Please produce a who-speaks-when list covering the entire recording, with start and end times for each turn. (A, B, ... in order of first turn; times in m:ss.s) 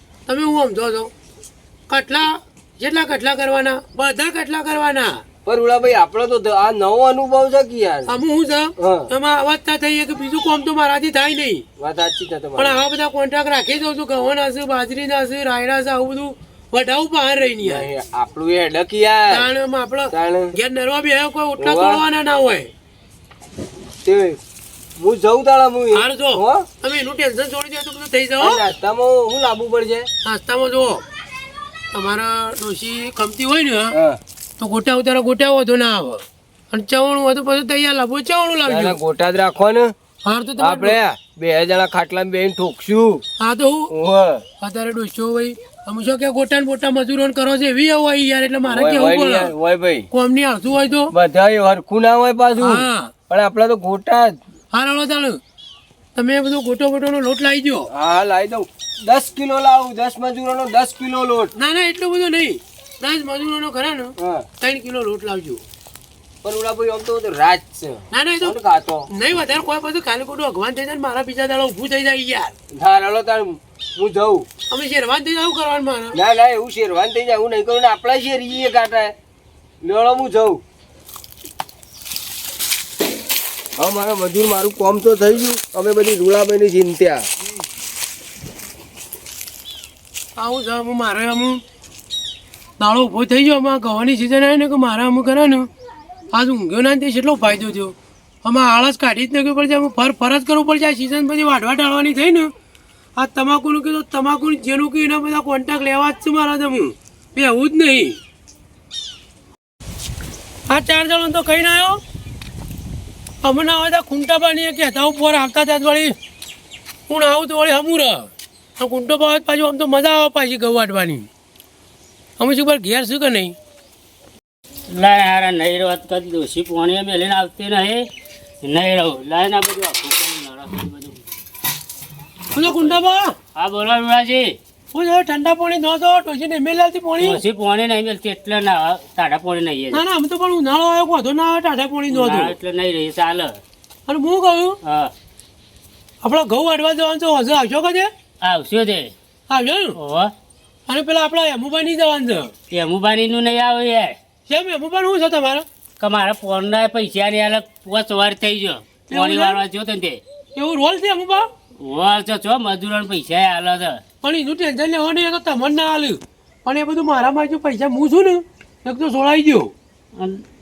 0:00.3-0:01.1 A
0:01.9-0:05.2 A
0:05.4-0:08.2 B
0:08.1-0:11.6 A
0:08.8-0:09.1 B
0:11.8-0:12.8 B
0:12.6-0:17.9 A
0:17.6-0:19.5 B
0:19.3-0:22.7 A
0:20.1-0:20.5 B
0:21.6-0:22.0 B
0:24.0-0:24.4 B
0:25.0-0:26.7 B
0:25.9-0:28.6 A
0:28.4-0:30.1 B
0:30.2-0:31.0 A
0:31.9-0:34.0 A
0:33.9-0:34.2 B
0:34.6-0:39.0 A
0:38.7-0:39.9 B
0:40.2-0:41.0 A
0:40.6-0:43.2 B
0:43.4-0:43.9 A
0:43.9-0:44.4 B
0:44.6-0:49.5 A
0:48.7-0:50.1 B
0:50.1-0:51.1 A
0:51.1-0:54.4 B
0:52.6-0:53.1 A
0:54.7-0:55.4 A
0:56.2-0:57.9 A
0:57.9-1:01.5 B
1:01.6-1:05.6 A
1:04.2-1:04.5 B
1:06.4-1:09.1 B
1:08.1-1:08.6 A
1:09.1-1:12.5 A
1:12.7-1:14.5 B
1:14.7-1:16.2 A
1:16.1-1:19.1 B
1:19.8-1:20.6 B
1:23.8-1:27.2 B
1:30.4-1:31.6 A
1:32.8-1:35.7 A
1:36.3-1:42.5 A
1:43.2-1:48.2 A
1:50.7-1:52.0 A
1:53.4-1:56.2 A
1:57.1-2:01.3 A
2:02.4-2:03.6 A
2:04.9-2:08.1 C
2:08.6-2:11.2 C
2:12.5-2:13.4 A
2:12.6-2:13.0 C
2:13.6-2:14.6 C
2:14.9-2:17.4 A
2:17.2-2:20.0 C
2:19.9-2:22.6 A
2:22.1-2:23.6 C
2:24.1-2:24.8 A
2:24.8-2:25.1 C
2:26.2-2:28.1 A
2:28.4-2:29.1 C
2:29.5-2:30.0 A
2:30.0-2:30.3 C
2:30.9-2:32.5 A
2:32.7-2:34.2 C
2:34.5-2:35.7 A
2:36.0-2:40.2 C
2:39.1-2:39.6 A
2:40.6-2:41.5 A
2:41.8-2:44.0 C
2:44.2-2:49.7 A
2:50.2-2:50.4 C